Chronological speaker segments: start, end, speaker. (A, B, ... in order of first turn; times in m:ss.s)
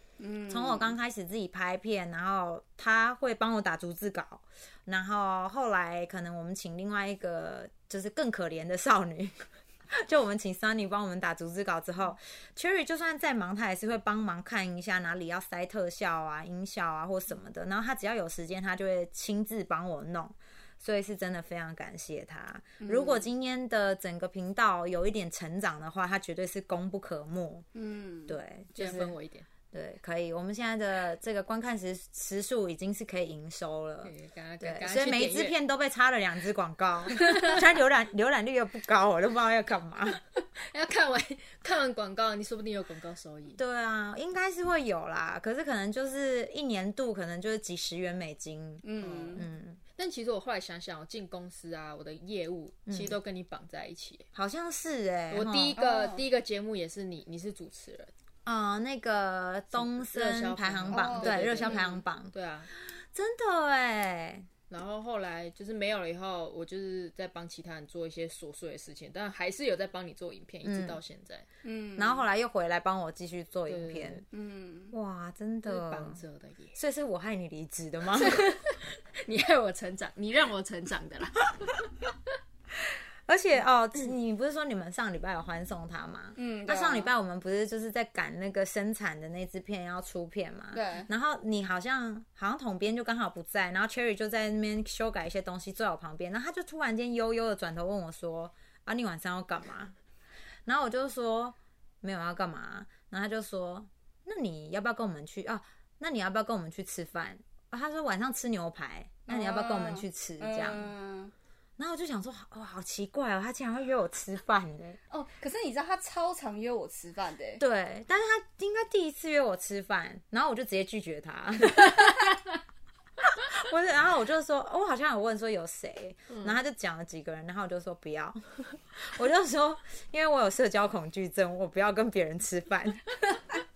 0:00.2-0:00.9 A
0:00.5-0:27.6 B
0:22.8-0:23.3 A
0:27.7-0:28.4 A
0:28.3-0:29.2 B
0:28.7-0:29.5 C
0:29.7-0:40.2 B
0:34.0-0:35.5 C
0:40.6-0:43.6 C
0:43.6-0:49.8 B
0:48.8-0:49.4 A
0:49.0-0:49.4 C
0:50.0-0:54.2 C
0:52.9-0:53.2 B
0:54.3-0:55.8 B
0:55.3-0:58.1 C
0:55.8-0:56.2 A
0:58.4-1:04.5 B
0:59.7-1:02.7 C
1:00.9-1:01.9 A
1:04.7-1:11.4 C
1:10.6-1:11.0 B
1:11.6-1:12.2 A
1:12.0-1:14.2 B
1:13.7-1:14.2 C
1:14.3-1:14.9 A
1:14.9-1:16.2 B
1:15.6-1:16.8 C
1:16.7-1:18.4 B
1:18.2-1:21.9 C
1:22.8-1:39.9 B
1:26.4-1:27.1 A
1:30.7-1:31.1 A
1:40.6-1:50.9 B
1:49.3-1:51.3 A
1:51.8-1:55.0 B
1:55.1-1:57.6 A
1:57.6-2:02.4 B
2:03.2-2:13.1 B
2:06.3-2:06.6 C